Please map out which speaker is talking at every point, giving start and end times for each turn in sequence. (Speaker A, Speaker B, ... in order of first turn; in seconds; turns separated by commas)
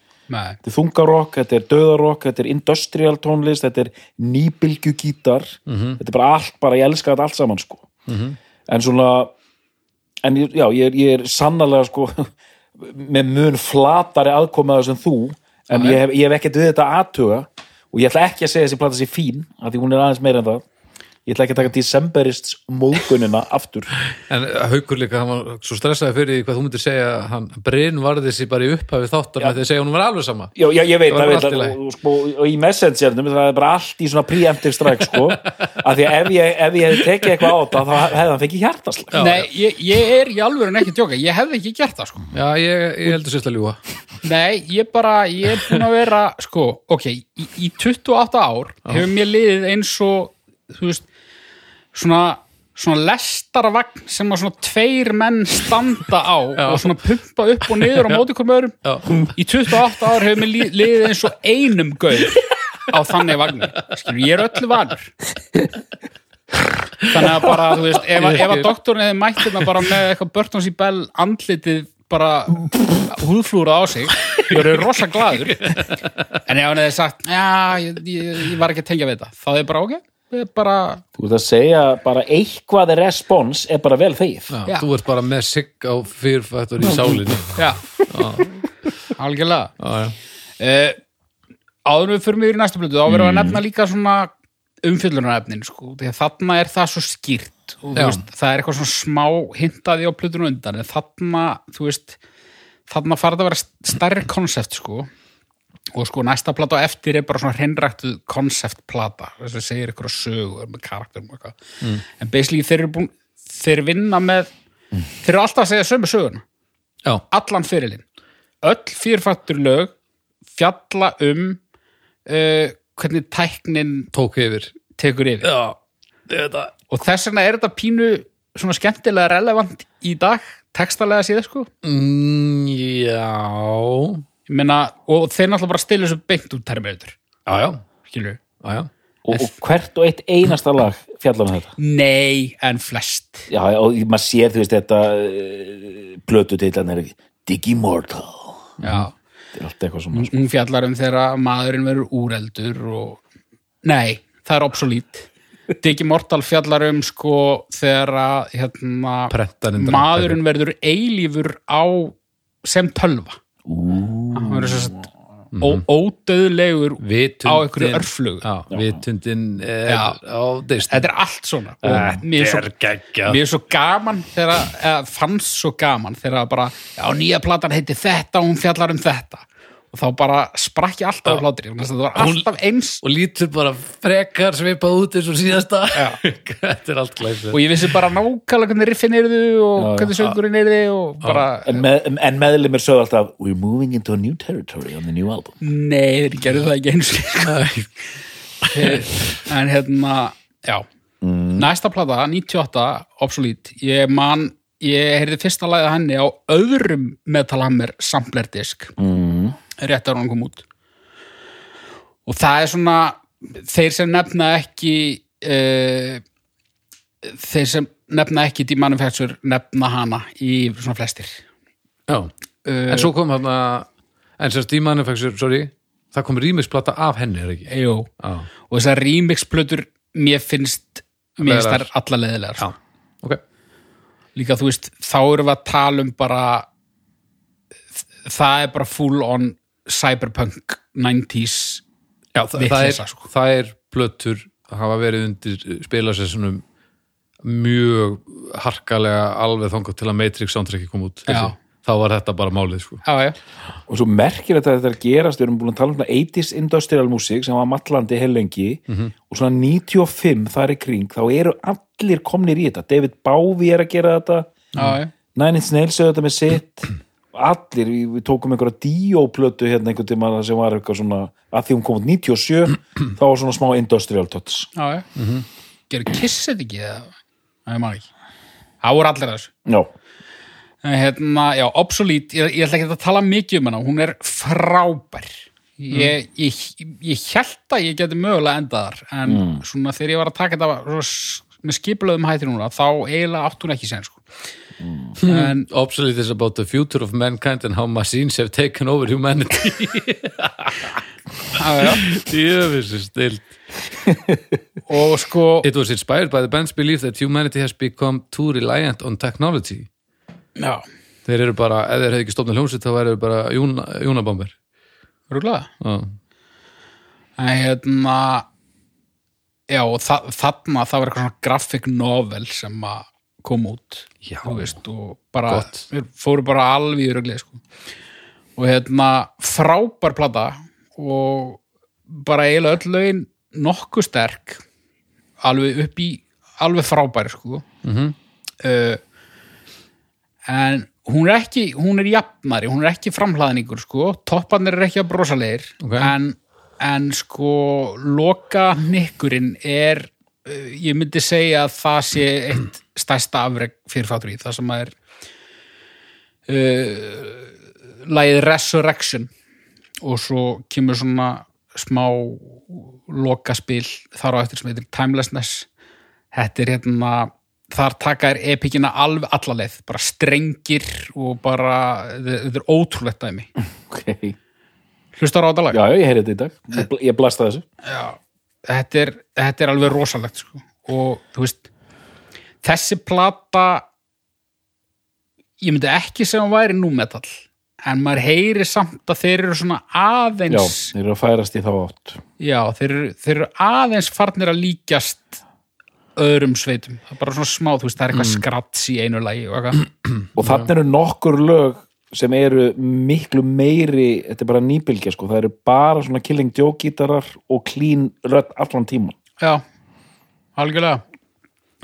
Speaker A: 0.3-0.6, Speaker B: 0.6-7.9, Speaker C: 5.7-6.0, Speaker C: 8.1-8.4, Speaker B: 8.7-9.3, Speaker B: 10.2-20.6, Speaker B: 21.3-23.9, Speaker C: 24.2-30.6, Speaker B: 30.6-39.2, Speaker C: 31.1-31.8, Speaker C: 35.1-35.7, Speaker C: 39.1-39.5, Speaker A: 39.1-42.3, Speaker C: 42.3-43.8, Speaker A: 44.2-51.1, Speaker A: 51.9-65.1, Speaker C: 56.6-56.9, Speaker C: 57.8-58.2, Speaker C: 58.8-59.3, Speaker C: 67.0-68.7, Speaker A: 67.1-75.8, Speaker C: 74.3-74.7, Speaker C: 75.3-76.2, Speaker A: 76.5-81.0, Speaker B: 81.2-84.5, Speaker C: 84.5-88.7, Speaker B: 86.9-87.2, Speaker A: 87.6-87.8, Speaker A: 89.2-89.8, Speaker C: 89.8-90.2, Speaker A: 90.6-91.0, Speaker A: 91.8-94.3, Speaker B: 93.1-93.6, Speaker A: 94.8-102.2, Speaker C: 98.0-98.2, Speaker A: 102.9-105.1, Speaker A: 105.9-114.5, Speaker A: 115.2-116.4, Speaker A: 117.3-118.0, Speaker A: 118.6-119.9, Speaker A: 120.5-121.6, Speaker A: 122.3-124.1, Speaker C: 124.1-124.7, Speaker A: 125.0-125.5, Speaker C: 125.4-125.8, Speaker C: 126.3-126.7, Speaker A: 126.9-131.7, Speaker C: 131.8-134.2, Speaker A: 134.5-137.2, Speaker C: 137.5-137.8, Speaker A: 138.1-138.4, Speaker C: 138.6-138.9, Speaker B: 139.2-141.7, Speaker A: 141.8-143.5, Speaker B: 143.5-148.8, Speaker C: 148.8-149.1, Speaker A: 148.8-149.1, Speaker B: 149.6-150.3, Speaker A: 150.1-153.2, Speaker A: 153.8-163.4, Speaker C: 159.3-160.4, Speaker B: 163.7-165.0, Speaker A: 164.3-165.1, Speaker C: 165.5-165.8, Speaker A: 165.6-168.4, Speaker C: 167.0-171.1, Speaker B: 168.7-169.0, Speaker A: 169.8-170.2, Speaker A: 170.9-172.7, Speaker C: 171.8-173.4, Speaker B: 171.9-172.2, Speaker A: 173.2-183.0, Speaker C: 182.2-182.5, Speaker C: 183.0-187.9, Speaker A: 185.9-186.2, Speaker A: 187.5-191.8, Speaker B: 189.8-190.2, Speaker B: 191.6-195.6, Speaker A: 195.6-197.6, Speaker C: 197.4-197.9, Speaker C: 198.6-199.1, Speaker A: 198.7-200.9, Speaker B: 201.2-201.7, Speaker A: 201.6-208.9, Speaker B: 209.0-209.6, Speaker A: 209.8-210.7, Speaker A: 212.3-216.2, Speaker A: 217.2-221.4, Speaker A: 222.7-223.1, Speaker C: 222.9-223.9, Speaker C: 224.4-228.5, Speaker A: 227.7-228.1, Speaker A: 228.7-232.7, Speaker C: 231.4-231.9, Speaker C: 232.6-233.4, Speaker A: 234.3-236.7, Speaker A: 238.2-241.8, Speaker C: 242.3-246.6, Speaker A: 242.6-243.2, Speaker C: 247.4-253.0, Speaker A: 251.3-251.6, Speaker A: 253.1-253.4, Speaker B: 253.9-264.6, Speaker A: 264.8-265.1, Speaker B: 265.4-274.7, Speaker A: 274.8-275.1, Speaker C: 275.2-275.4, Speaker A: 275.9-277.1, Speaker A: 277.7-278.1, Speaker A: 278.8-279.5, Speaker A: 280.8-294.2, Speaker B: 289.3-289.6, Speaker B: 294.8-295.2, Speaker C: 295.2-301.0, Speaker A: 295.2-295.7, Speaker A: 301.6-302.0, Speaker C: 301.8-303.5, Speaker A: 304.9-305.7, Speaker C: 305.6-309.9, Speaker A: 310.6-310.8, Speaker C: 311.3-314.5, Speaker A: 315.3-315.7, Speaker C: 315.8-316.1, Speaker A: 317.4-318.5, Speaker A: 319.7-327.6, Speaker C: 324.2-324.7, Speaker C: 325.5-325.9, Speaker A: 328.6-334.6, Speaker A: 335.4-337.6, Speaker C: 337.8-338.1, Speaker A: 338.6-339.0, Speaker A: 340.5-355.0, Speaker C: 345.8-346.1, Speaker A: 356.5-357.5, Speaker A: 358.1-359.3, Speaker A: 360.0-365.7, Speaker A: 366.3-373.5, Speaker B: 373.9-374.4, Speaker A: 375.2-375.8, Speaker B: 375.7-377.6, Speaker A: 377.9-381.7, Speaker A: 382.6-383.9, Speaker A: 385.6-390.9, Speaker B: 390.5-392.2, Speaker A: 392.4-395.4, Speaker A: 396.2-399.8, Speaker C: 398.1-398.4, Speaker B: 400.4-409.2, Speaker C: 400.4-400.7, Speaker A: 410.6-411.0